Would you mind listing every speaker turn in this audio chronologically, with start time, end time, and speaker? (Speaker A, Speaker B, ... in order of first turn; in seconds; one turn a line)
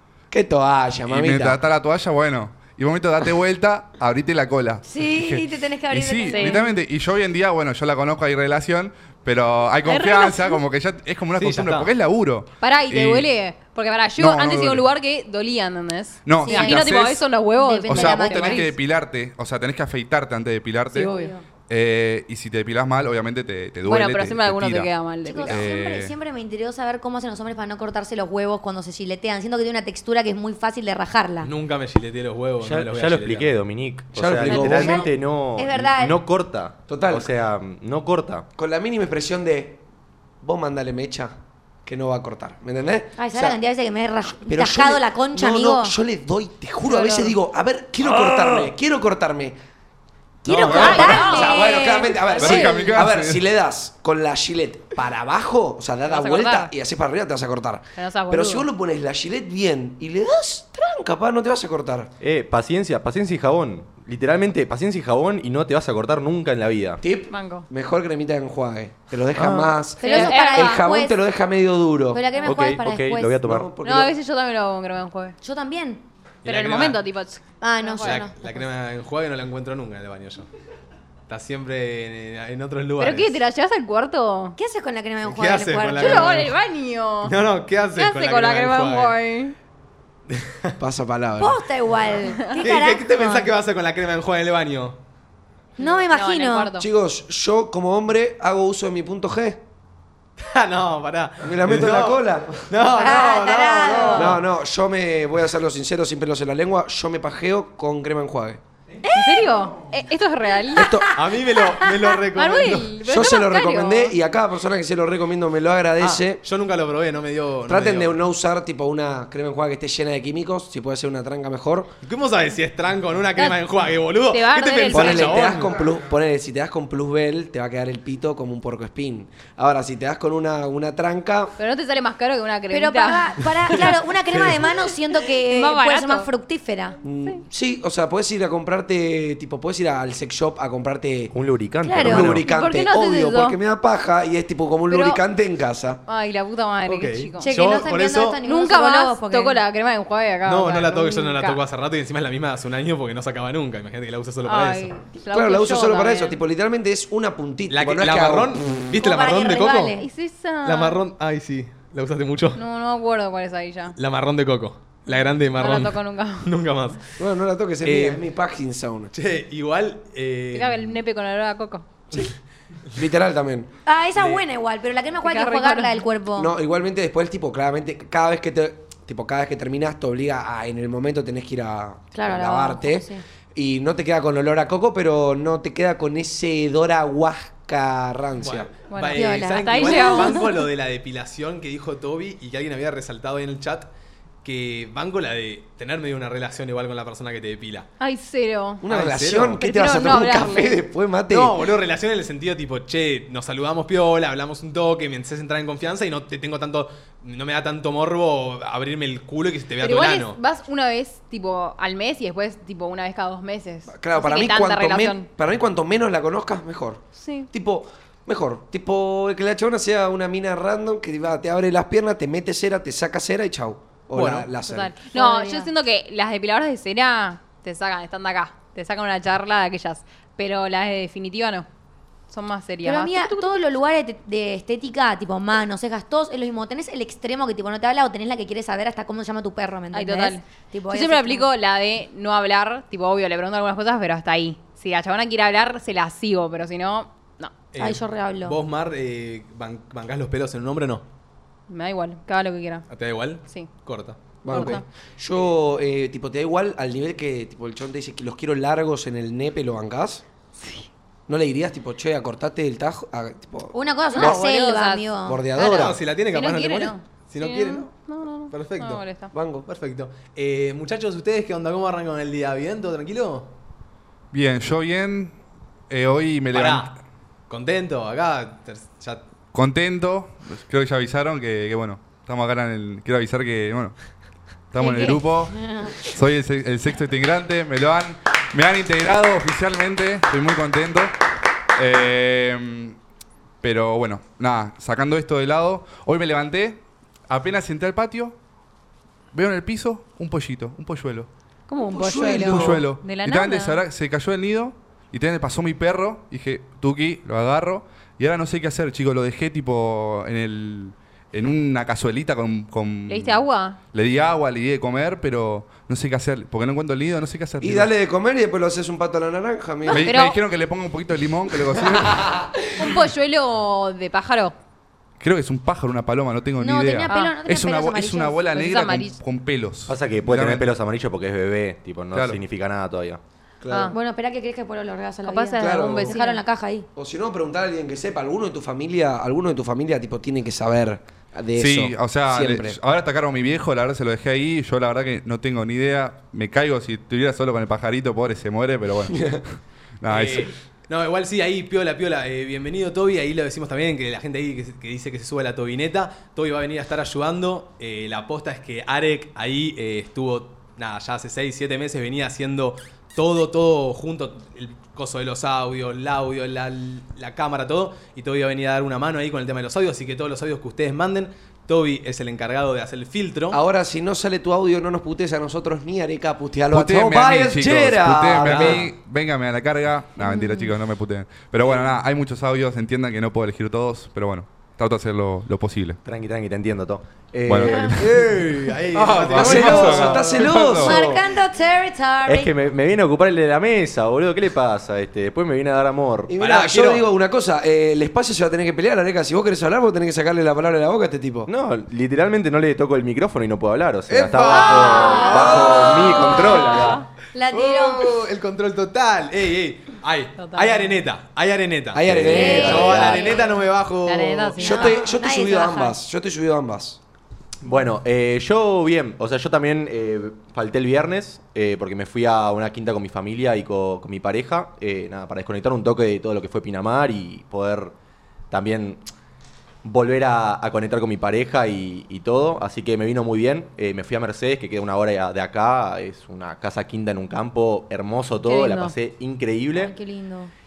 Speaker A: 0.3-1.6
Speaker B: 1.1-13.3
Speaker C: 4.8-6.7
Speaker D: 6.3-6.7
Speaker D: 9.8-10.6
Speaker E: 11.3-11.9
Speaker D: 12.6-18.7
Speaker B: 14.2-14.9
Speaker B: 16.2-17.2
Speaker C: 16.4-17.0
Speaker C: 17.6-18.7
Speaker B: 17.9-21.1
Speaker D: 20.9-21.3
Speaker C: 20.9-21.4
Speaker B: 21.7-24.9
Speaker D: 23.9-25.6
Speaker C: 25.2-31.5
Speaker B: 25.5-26.1
Speaker E: 31.4-33.5
Speaker F: 32.6-38.5
Speaker A: 34.1-35.0
Speaker C: 34.4-36.2
Speaker A: 36.9-37.3
Speaker A: 38.5-39.8
Speaker A: 40.4-41.3
Speaker A: 41.9-43.6
Speaker C: 43.2-45.9
Speaker A: 44.4-49.5
Speaker D: 46.9-47.3
Speaker C: 50.4-52.8
Speaker E: 50.5-51.1
Speaker A: 50.5-62.1
Speaker D: 50.6-52.7
Speaker B: 52.4-53.4
Speaker D: 56.1-56.7
Speaker D: 58.0-58.7
Speaker F: 62.2-67.0
Speaker A: 67.0-72.2
Speaker D: 67.3-67.7
Speaker D: 70.0-70.8
Speaker C: 70.0-71.2
Speaker C: 72.1-73.4
Speaker F: 72.4-73.7
Speaker A: 73.4-74.1
Speaker D: 73.8-75.4
Speaker C: 75.4-76.0
Speaker E: 76.4-77.0
Speaker D: 76.4-78.5
Speaker C: 77.6-78.3
Speaker E: 78.0-80.5
Speaker E: 81.3-83.4
Speaker D: 83.0-84.5
Speaker C: 84.5-86.4
Speaker E: 85.2-86.5
Speaker D: 85.9-87.3
Speaker E: 87.2-89.1
Speaker D: 88.0-89.5
Speaker E: 90.3-90.8
Speaker A: 90.8-91.6
Speaker C: 91.4-93.5
Speaker E: 92.6-95.0
Speaker C: 95.8-96.7
Speaker D: 95.8-96.9
Speaker A: 96.8-99.6
Speaker E: 100.4-104.3
Speaker A: 101.4-102.7
Speaker C: 102.9-104.4
Speaker D: 103.9-104.2
Speaker A: 104.1-108.6
Speaker C: 109.0-109.5
Speaker D: 109.1-110.8
Speaker C: 110.7-112.1
Speaker A: 110.8-111.1
Speaker E: 111.1-113.0
Speaker D: 112.3-114.2
Speaker A: 113.0-116.4
Speaker E: 116.0-118.2
Speaker A: 117.7-121.9
Speaker E: 122.0-125.8
Speaker D: 124.3-125.5
Speaker A: 124.9-131.5
Speaker D: 131.6-133.8
Speaker C: 132.7-137.0
Speaker E: 134.3-134.6
Speaker D: 135.3-136.3
Speaker A: 137.0-141.3
Speaker F: 141.3-142.4
Speaker C: 141.8-143.5
Speaker A: 141.9-146.0
Speaker D: 142.5-143.6
Speaker D: 144.9-145.2
Speaker D: 146.1-147.5
Speaker E: 146.8-148.4
Speaker C: 147.4-149.6
Speaker D: 148.4-151.6
Speaker E: 150.4-155.0
Speaker D: 154.4-156.4
Speaker A: 155.3-158.9
Speaker E: 157.7-159.9
Speaker C: 158.9-160.1
Speaker D: 159.9-161.0
Speaker E: 160.6-162.6
Speaker D: 162.6-164.0
Speaker E: 164.0-167.1
Speaker D: 165.1-166.5
Speaker A: 167.2-169.1
Speaker E: 167.8-168.2
Speaker E: 169.1-171.0
Speaker D: 170.5-171.8
Speaker A: 172.9-173.7
Speaker C: 173.8-176.5
Speaker D: 175.2-176.0
Speaker A: 176.4-188.7
Speaker C: 182.1-183.2
Speaker E: 188.4-193.9
Speaker D: 188.9-190.6
Speaker C: 189.1-190.5
Speaker E: 194.4-197.9
Speaker D: 198.0-198.8
Speaker A: 198.8-201.6
Speaker E: 198.9-199.6
Speaker D: 199.6-200.8
Speaker E: 201.3-210.4
Speaker D: 209.8-215.3
Speaker A: 213.9-224.9
Speaker D: 217.2-217.5
Speaker E: 224.1-224.5
Speaker D: 224.6-231.7
Speaker C: 225.1-225.7
Speaker D: 232.3-233.5
Speaker C: 232.8-241.5
Speaker D: 239.9-247.5
Speaker E: 247.7-251.0
Speaker C: 247.8-248.6
Speaker D: 251.7-252.8
Speaker E: 252.9-254.8
Speaker A: 254.4-260.2
Speaker D: 254.5-254.8
Speaker D: 260.6-260.9
Speaker A: 261.3-264.4
Speaker C: 263.7-265.4
Speaker D: 264.1-265.1
Speaker A: 265.2-266.0
Speaker E: 265.6-269.0
Speaker D: 266.3-269.3
Speaker A: 269.3-269.7
Speaker E: 269.7-273.5
Speaker B: 274.3-275.3
Speaker B: 275.9-277.0
Speaker E: 276.5-276.9
Speaker E: 277.5-279.2
Speaker B: 279.5-283.9
Speaker B: 284.7-291.1
Speaker C: 284.8-286.0
Speaker B: 291.8-292.9
Speaker B: 293.6-298.4
Speaker B: 299.3-301.3
Speaker D: 301.7-303.8
Speaker A: 301.9-302.8
Speaker B: 302.4-317.9
Speaker D: 313.1-313.8
Speaker A: 317.6-320.1
Speaker D: 319.9-320.4
Speaker B: 319.9-322.4
Speaker A: 322.1-322.6
Speaker D: 322.8-324.5
Speaker B: 325.2-330.7
Speaker C: 326.6-328.4
Speaker D: 327.1-327.3
Speaker D: 328.5-329.2
Speaker F: 329.9-333.2
Speaker B: 332.1-332.4
Speaker A: 333.6-333.9
Speaker D: 333.7-333.9
Speaker C: 333.9-336.9
Speaker D: 335.2-336.4
Speaker A: 335.6-336.1
Speaker A: 336.9-342.8
Speaker B: 341.6-349.3
Speaker A: 349.1-349.4
Speaker B: 350.0-350.5
Speaker E: 350.1-373.6
Speaker A: 373.5-378.9
Speaker B: 376.7-386.0
Speaker E: 378.4-378.9
Speaker C: 380.2-380.7
Speaker F: 386.0-389.8
Speaker B: 387.4-388.2
Speaker C: 387.6-388.0
Speaker E: 388.0-390.5
Speaker B: 388.9-391.0
Speaker A: 389.3-391.2
Speaker C: 390.8-392.5
Speaker F: 392.2-396.3
Speaker A: 396.3-401.5
Speaker E: 396.4-397.1
Speaker F: 401.5-407.0
Speaker E: 404.1-406.9
Speaker D: 404.7-406.9
Speaker C: 404.8-408.1
Speaker E: 407.5-414.6
Speaker D: 410.4-410.9
Speaker A: 411.9-413.0
Speaker F: 412.0-413.3
Speaker C: 412.3-413.6
Speaker D: 414.1-414.9
Speaker C: 414.6-416.0
Speaker A: 414.6-417.0
Speaker F: 417.6-427.9
Speaker F: 428.5-429.0
Speaker F: 429.8-439.9
Speaker D: 438.4-438.9
Speaker C: 439.7-440.5